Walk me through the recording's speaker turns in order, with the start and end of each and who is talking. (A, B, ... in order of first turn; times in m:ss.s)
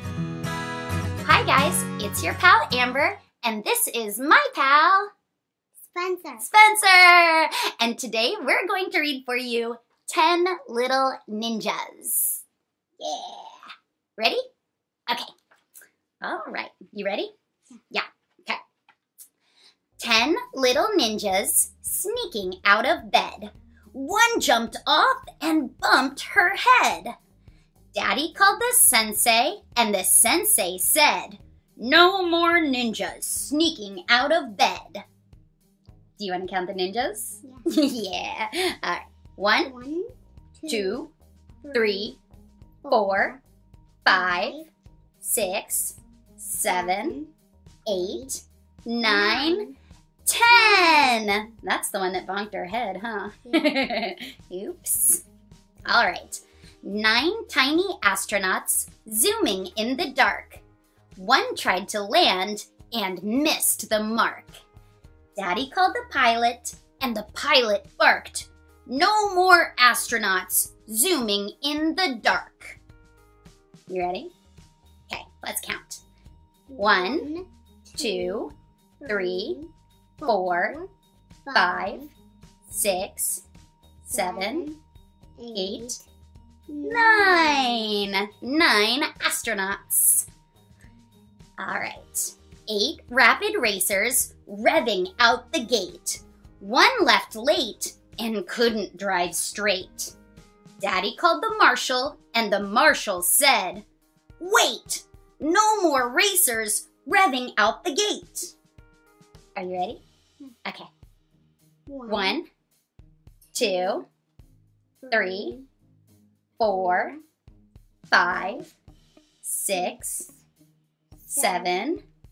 0:01.2-0:05.1 A
0:05.8-0:06.5 B
0:06.4-0:12.4 A
0:13.0-0:13.4 A
0:16.2-0:17.3 A
0:17.9-0:18.6 A
0:20.0-0:27.2 A
0:27.9-0:35.0 A
0:36.2-0:39.7 A
0:39.6-0:41.0 B
0:40.7-0:41.1 A
0:41.6-0:42.2 B
0:41.7-0:42.2 A
0:42.8-0:43.4 B
0:42.9-0:43.4 A
0:44.0-0:44.6 A
0:44.1-0:44.7 B
0:45.2-0:47.2 A
0:46.7-0:47.3 B
0:47.9-0:49.7 A
0:47.9-0:48.3 B
0:49.0-0:49.7 B
0:50.3-0:55.2 A
0:50.5-0:51.5 B
0:53.5-0:53.8 B
0:55.9-1:00.6 A
1:01.2-1:04.5 A
1:05.4-1:12.8 A
1:13.9-1:14.3 A
1:15.1-1:16.0 A
1:16.7-1:18.5 B
1:16.8-1:17.3 A
1:18.0-1:18.5 A
1:19.0-1:19.7 B
1:19.1-1:19.6 A
1:20.2-1:20.9 B
1:20.2-1:20.8 A
1:21.5-1:22.1 B
1:21.5-1:22.0 A
1:22.7-1:23.4 A
1:24.0-1:24.8 B
1:24.1-1:24.7 A
1:25.4-1:26.0 B
1:25.5-1:26.0 A
1:26.7-1:27.9 B
1:26.8-1:30.3 A
1:31.6-1:40.1 A
1:40.8-1:43.8 A
1:44.4-1:48.5 A
1:49.6-1:50.0 A
1:51.9-1:52.4 B
1:52.1-1:52.5 A
1:53.5-1:54.0 B
1:53.6-1:54.0 A
1:55.0-1:55.7 B
1:55.1-1:55.6 A
1:56.6-1:57.2 A
1:56.7-1:57.2 B
1:58.1-1:58.7 A
1:58.2-1:58.6 B
1:59.4-2:00.3 A
2:01.3-2:02.0 A
2:01.3-2:01.9 B